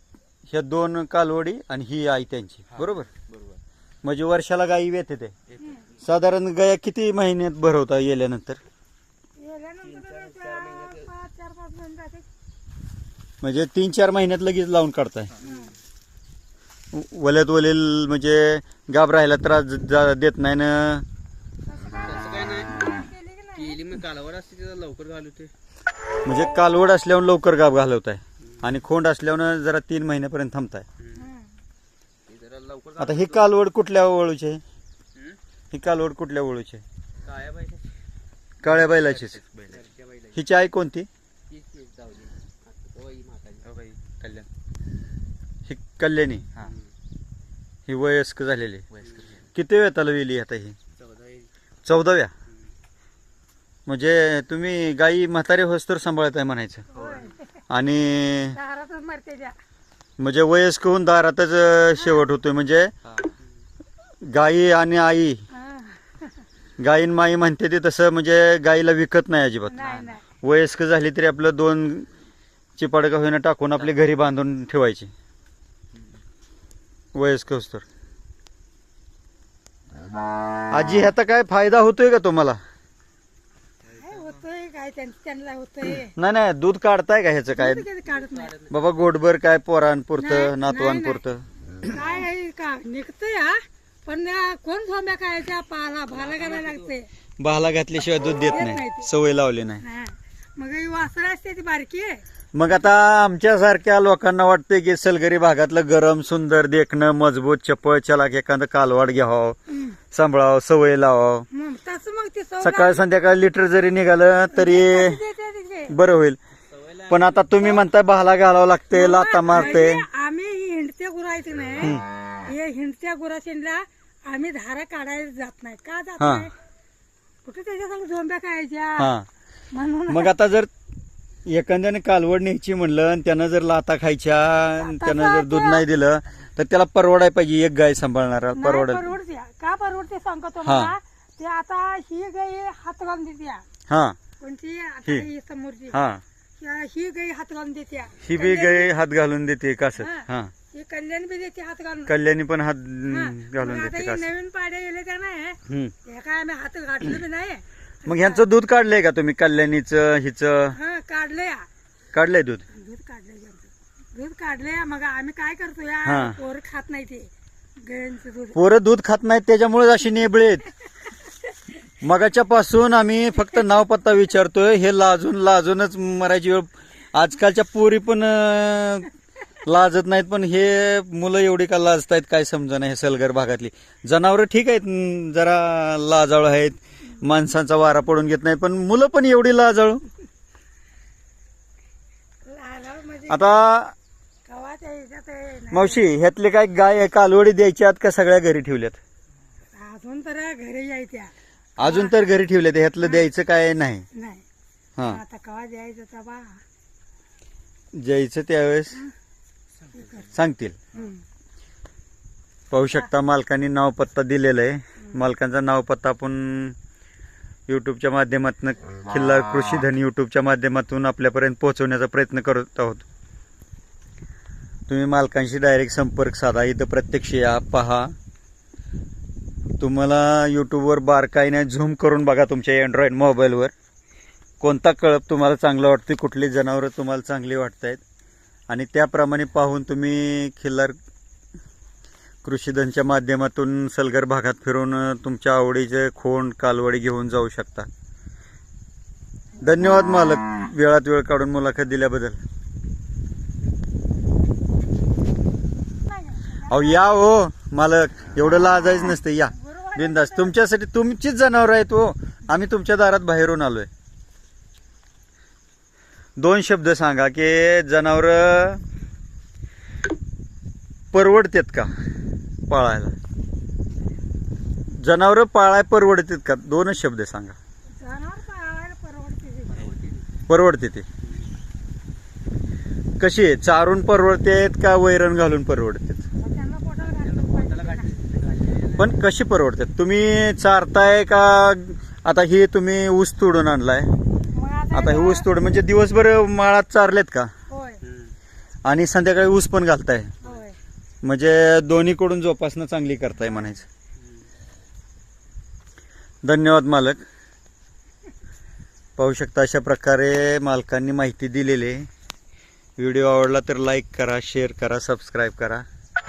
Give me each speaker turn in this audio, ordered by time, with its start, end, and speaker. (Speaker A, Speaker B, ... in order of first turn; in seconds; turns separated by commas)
Speaker A: 0.5-3.1, Speaker B: 2.7-3.6, Speaker A: 4.0-5.4, Speaker B: 5.5-5.8, Speaker A: 6.0-8.6, Speaker C: 9.4-12.3, Speaker D: 9.8-11.2, Speaker A: 13.4-15.3, Speaker B: 15.3-15.7, Speaker C: 15.4-15.7, Speaker D: 15.4-15.8, Speaker A: 16.9-21.1, Speaker D: 21.9-22.8, Speaker C: 22.8-23.8, Speaker D: 23.6-25.5, Speaker A: 26.2-30.9, Speaker D: 28.4-28.7, Speaker D: 31.0-31.3, Speaker C: 31.1-31.6, Speaker D: 32.3-33.6, Speaker A: 33.0-34.6, Speaker A: 35.7-36.8, Speaker D: 37.2-37.9, Speaker A: 38.6-39.4, Speaker B: 38.6-39.9, Speaker D: 39.7-40.4, Speaker A: 40.4-41.1, Speaker D: 41.5-43.6, Speaker B: 43.6-44.5, Speaker A: 45.7-46.5, Speaker D: 46.6-46.9, Speaker A: 47.9-48.9, Speaker B: 48.9-49.4, Speaker A: 49.5-50.8, Speaker D: 50.9-51.5, Speaker A: 51.9-52.3, Speaker A: 53.9-56.9, Speaker B: 56.9-57.3, Speaker C: 56.9-57.5, Speaker A: 57.7-58.6, Speaker C: 58.5-59.6, Speaker A: 60.2-62.9, Speaker B: 63.0-63.4, Speaker A: 64.2-65.5, Speaker C: 65.5-66.5, Speaker A: 66.8-69.9, Speaker C: 69.7-70.2, Speaker B: 69.8-70.2, Speaker A: 70.4-72.1, Speaker A: 72.8-75.1, Speaker B: 75.9-76.2, Speaker A: 77.2-77.8, Speaker A: 80.7-82.6, Speaker B: 83.8-84.4, Speaker C: 84.0-86.1, Speaker A: 85.9-87.9, Speaker C: 87.5-88.5, Speaker D: 88.1-88.7, Speaker A: 88.7-91.5, Speaker C: 90.2-91.2, Speaker C: 91.8-97.1, Speaker D: 96.1-96.9, Speaker A: 97.4-99.8, Speaker C: 98.4-99.1, Speaker C: 99.8-102.2, Speaker A: 102.5-109.6, Speaker C: 109.7-110.0, Speaker A: 110.1-111.5, Speaker C: 111.5-113.0, Speaker A: 112.6-115.2, Speaker C: 114.5-116.0, Speaker A: 115.9-116.4, Speaker D: 116.7-117.5, Speaker A: 117.1-120.0, Speaker C: 117.6-117.8, Speaker C: 118.9-126.5, Speaker A: 126.2-126.5, Speaker C: 127.5-129.1, Speaker A: 129.0-129.3, Speaker C: 129.7-130.3, Speaker A: 130.1-130.7, Speaker A: 131.4-139.1, Speaker C: 134.8-135.8, Speaker C: 138.6-143.7, Speaker A: 140.6-141.0, Speaker A: 143.9-144.2, Speaker C: 144.4-146.0, Speaker A: 145.9-146.2, Speaker C: 146.6-148.9, Speaker A: 148.2-150.5, Speaker C: 150.0-152.1, Speaker A: 152.1-154.3, Speaker C: 153.1-158.4, Speaker A: 155.7-155.9, Speaker A: 158.1-160.8, Speaker C: 160.7-161.7, Speaker A: 162.1-162.7, Speaker C: 162.7-168.6, Speaker A: 166.1-166.4, Speaker A: 168.5-170.7, Speaker A: 172.0-179.1, Speaker A: 179.7-190.0, Speaker C: 192.4-193.4, Speaker A: 193.3-193.9, Speaker C: 194.5-196.0, Speaker A: 195.7-199.0, Speaker C: 199.7-201.3, Speaker A: 201.8-204.1, Speaker C: 201.8-202.2, Speaker C: 203.0-203.3, Speaker C: 204.1-204.4, Speaker A: 205.0-205.2, Speaker C: 205.0-206.6, Speaker A: 207.9-209.1, Speaker B: 209.8-210.3, Speaker C: 210.0-210.3, Speaker A: 210.3-210.8, Speaker C: 210.9-211.2, Speaker A: 212.7-216.8, Speaker A: 217.7-223.1, Speaker A: 224.9-228.1, Speaker A: 229.8-233.7, Speaker A: 234.6-238.0, Speaker A: 238.7-241.0, Speaker A: 242.4-247.9, Speaker A: 249.6-252.4, Speaker C: 256.0-257.1, Speaker A: 256.6-263.9, Speaker C: 259.6-260.5, Speaker A: 266.4-268.8, Speaker A: 271.1-271.9, Speaker A: 272.7-273.2, Speaker A: 274.9-277.6, Speaker C: 277.9-279.8, Speaker D: 279.7-280.3, Speaker A: 280.5-281.1, Speaker A: 283.2-286.3, Speaker C: 286.4-288.1, Speaker B: 287.3-288.1, Speaker D: 287.5-289.1, Speaker A: 289.0-294.1, Speaker C: 294.5-295.5, Speaker A: 294.9-297.5, Speaker C: 297.7-298.0, Speaker D: 298.0-298.4, Speaker A: 298.8-300.3, Speaker C: 300.4-300.8, Speaker A: 301.2-303.9, Speaker D: 304.2-304.5, Speaker A: 306.4-307.2, Speaker A: 309.2-312.1, Speaker A: 313.0-315.9